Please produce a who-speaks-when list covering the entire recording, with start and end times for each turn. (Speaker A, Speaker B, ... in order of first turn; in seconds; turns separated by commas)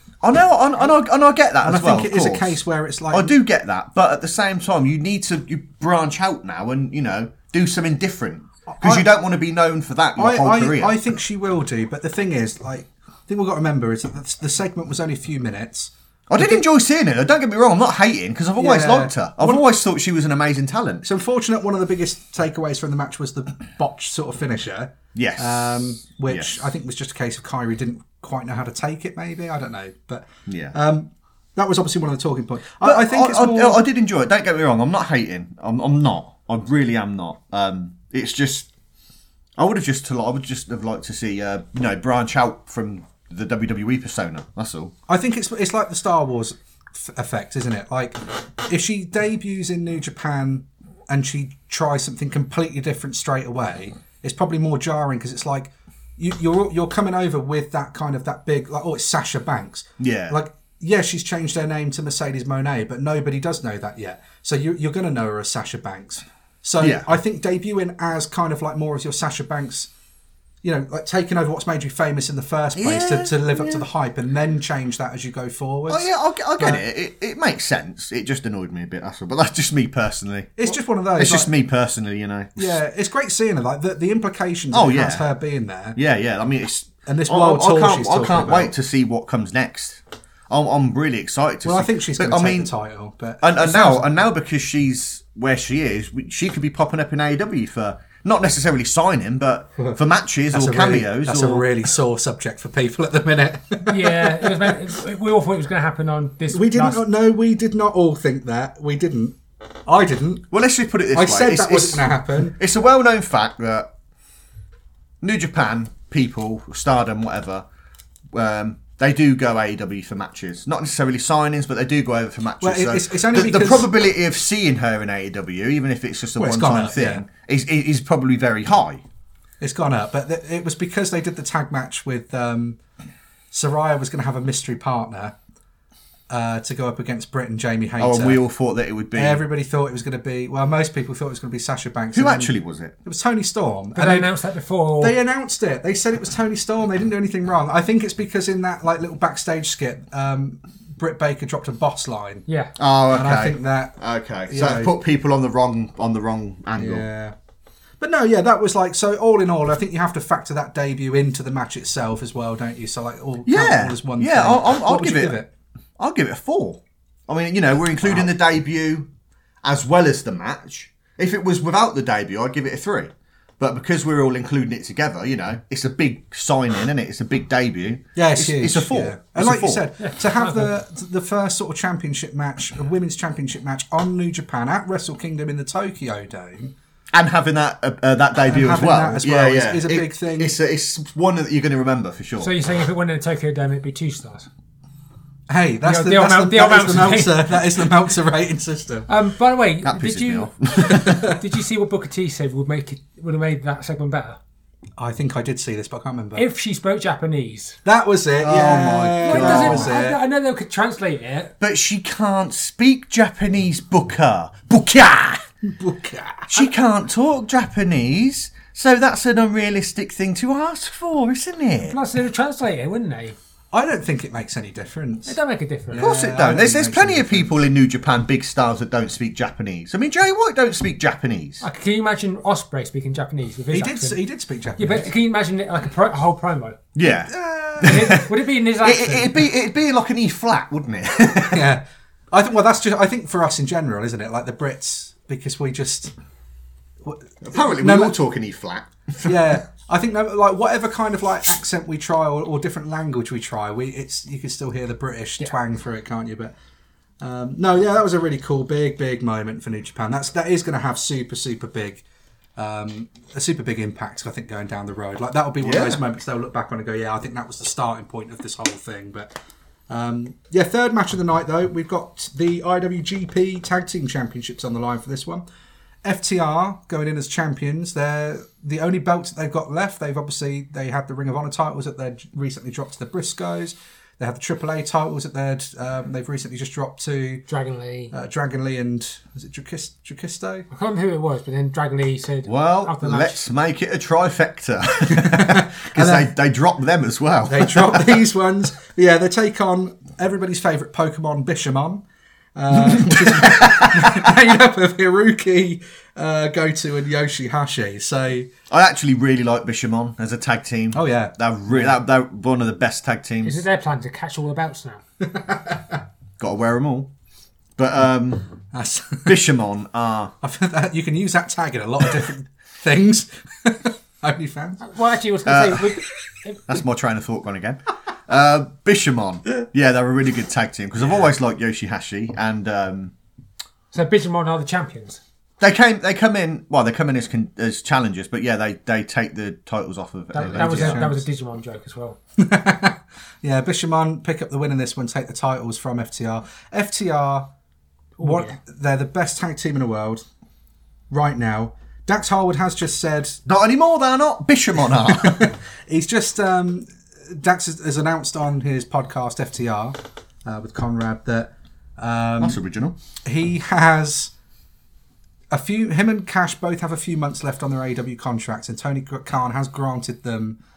Speaker A: 0.2-2.6, Speaker B: 1.6-3.3, Speaker A: 3.1-10.9, Speaker B: 8.7-9.1, Speaker B: 10.2-16.6, Speaker A: 16.3-21.1, Speaker B: 18.6-19.6, Speaker B: 21.0-33.8, Speaker A: 25.1-26.5, Speaker A: 30.5-30.7, Speaker A: 32.8-38.7, Speaker A: 39.6-44.9, Speaker B: 45.1-69.9, Speaker A: 60.0-60.4, Speaker A: 66.8-67.1, Speaker B: 70.6-76.8, Speaker A: 72.8-73.8, Speaker A: 75.9-82.8, Speaker B: 80.6-81.5, Speaker B: 82.6-86.0, Speaker A: 84.7-85.2, Speaker A: 86.0-92.7, Speaker B: 87.0-88.7, Speaker B: 91.6-94.2, Speaker A: 93.4-101.7, Speaker B: 100.5-104.8, Speaker C: 103.8-107.0, Speaker B: 106.5-110.4, Speaker A: 110.5-113.9, Speaker B: 111.1-112.6, Speaker A: 115.2-117.6, Speaker A: 118.3-129.0, Speaker B: 122.6-123.9, Speaker B: 126.3-127.2, Speaker B: 129.6-132.8, Speaker B: 133.5-135.3, Speaker B: 136.3-138.4, Speaker A: 138.0-139.4, Speaker B: 139.1-144.3, Speaker A: 142.1-142.9, Speaker C: 143.9-145.2, Speaker B: 145.0-152.4, Speaker C: 152.5-152.7, Speaker A: 152.8-157.0, Speaker B: 153.1-154.9, Speaker B: 156.8-157.3, Speaker B: 158.0-165.5, Speaker A: 163.4-165.4, Speaker A: 166.0-169.1, Speaker A: 169.6-179.9, Speaker B: 178.2-186.7, Speaker C: 180.0-180.7, Speaker A: 187.1-192.5, Speaker B: 188.5-190.5, Speaker C: 192.4-194.5, Speaker B: 195.5-199.1, Speaker C: 195.8-197.8, Speaker C: 199.1-204.4, Speaker A: 199.8-201.3, Speaker B: 200.8-201.4, Speaker B: 205.0-206.4, Speaker C: 206.3-207.8, Speaker B: 207.8-210.2, Speaker A: 208.4-210.0, Speaker C: 208.6-211.5, Speaker A: 211.6-215.4, Speaker B: 215.6-216.7, Speaker A: 216.5-221.9, Speaker C: 221.8-223.3, Speaker B: 223.7-225.4, Speaker C: 225.3-226.1, Speaker B: 225.9-227.6, Speaker A: 225.9-231.6, Speaker C: 231.6-234.2, Speaker B: 233.7-235.1, Speaker C: 234.8-236.8, Speaker A: 236.9-241.7, Speaker B: 237.8-238.1, Speaker C: 237.8-239.3, Speaker B: 241.4-246.1, Speaker B: 247.0-248.2, Speaker A: 247.4-249.6, Speaker B: 249.2-256.5, Speaker B: 257.2-262.0, Speaker B: 262.6-269.3, Speaker A: 265.6-266.0, Speaker B: 269.9-275.4, Speaker B: 276.0-287.4, Speaker C: 287.5-288.1, Speaker B: 288.1-290.7, Speaker C: 290.7-293.4, Speaker A: 292.4-298.2, Speaker B: 295.1-296.3, Speaker B: 297.5-302.0, Speaker B: 302.6-308.5, Speaker A: 302.7-304.3, Speaker A: 308.7-313.6, Speaker B: 310.9-312.0, Speaker C: 313.4-315.0, Speaker B: 315.2-316.0, Speaker A: 316.4-317.1, Speaker A: 317.8-318.5, Speaker B: 318.7-319.4, Speaker A: 319.2-320.3, Speaker B: 320.4-324.9, Speaker C: 324.8-326.8, Speaker A: 325.4-326.0, Speaker A: 326.7-333.1, Speaker C: 333.9-335.2, Speaker A: 335.6-341.0, Speaker C: 340.3-342.2, Speaker B: 340.4-341.2, Speaker B: 342.4-347.5, Speaker C: 348.2-348.5, Speaker B: 348.2-350.2, Speaker B: 351.1-353.4, Speaker A: 353.4-355.5, Speaker B: 354.9-362.6, Speaker A: 362.4-362.9, Speaker B: 363.2-364.3, Speaker B: 365.5-370.6